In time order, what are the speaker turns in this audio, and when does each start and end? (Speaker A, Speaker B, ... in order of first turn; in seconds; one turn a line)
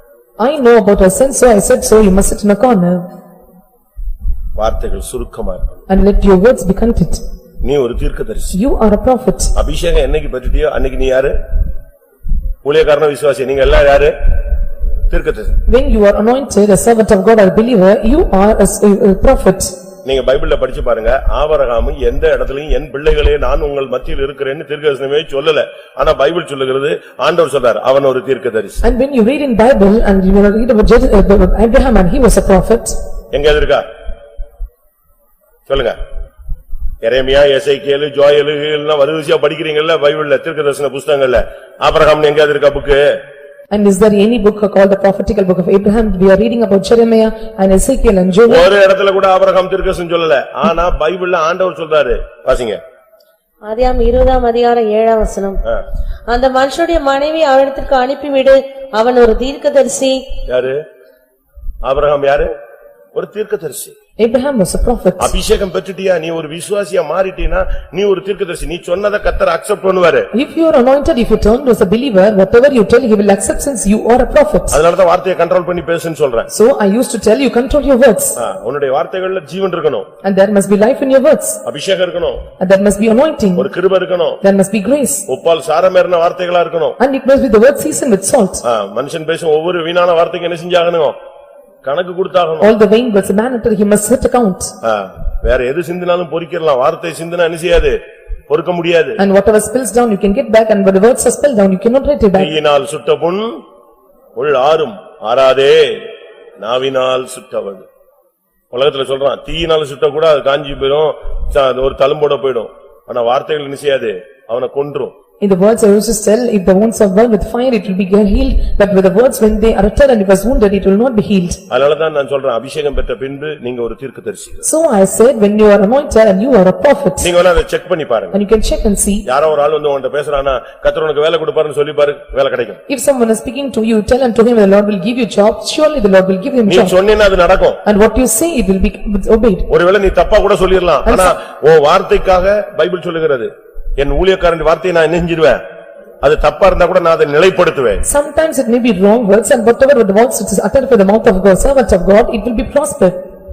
Speaker A: 0.4-3.0
Speaker B: 4.6-5.7
Speaker A: 5.9-7.2
Speaker B: 7.6-8.5
Speaker A: 8.5-9.5
Speaker B: 9.5-11.3
Speaker B: 12.6-14.1
Speaker B: 15.1-15.6
Speaker A: 15.7-19.7
Speaker B: 20.0-28.8
Speaker A: 28.8-33.0
Speaker B: 33.3-33.8
Speaker B: 35.7-36.0
Speaker B: 37.0-43.0
Speaker A: 43.7-48.6
Speaker B: 48.5-52.8
Speaker C: 53.6-55.6
Speaker C: 56.3-60.2
Speaker B: 60.5-60.8
Speaker B: 61.8-62.5
Speaker B: 63.1-63.9
Speaker A: 64.2-65.3
Speaker B: 65.2-70.3
Speaker A: 70.3-74.8
Speaker B: 74.7-76.5
Speaker A: 76.5-78.3
Speaker B: 78.3-80.1
Speaker A: 80.2-81.6
Speaker B: 81.6-82.4
Speaker A: 82.6-83.7
Speaker B: 83.5-84.4
Speaker A: 84.4-85.2
Speaker B: 85.3-87.0
Speaker A: 87.0-88.6
Speaker B: 88.6-91.2
Speaker B: 91.8-92.7
Speaker A: 92.6-94.7
Speaker B: 94.8-98.0
Speaker B: 98.5-99.2
Speaker A: 99.2-102.5
Speaker B: 102.4-103.6
Speaker B: 104.3-106.1
Speaker B: 106.6-107.8
Speaker B: 108.7-115.1
Speaker A: 115.4-121.6
Speaker B: 121.7-124.6
Speaker A: 124.6-127.3
Speaker B: 127.2-128.4
Speaker A: 128.3-129.2
Speaker B: 129.2-132.8
Speaker A: 132.9-136.9
Speaker B: 136.7-137.8
Speaker A: 137.8-139.7
Speaker B: 139.7-145.6
Speaker A: 141.1-141.3
Speaker B: 146.2-148.0
Speaker A: 148.0-153.2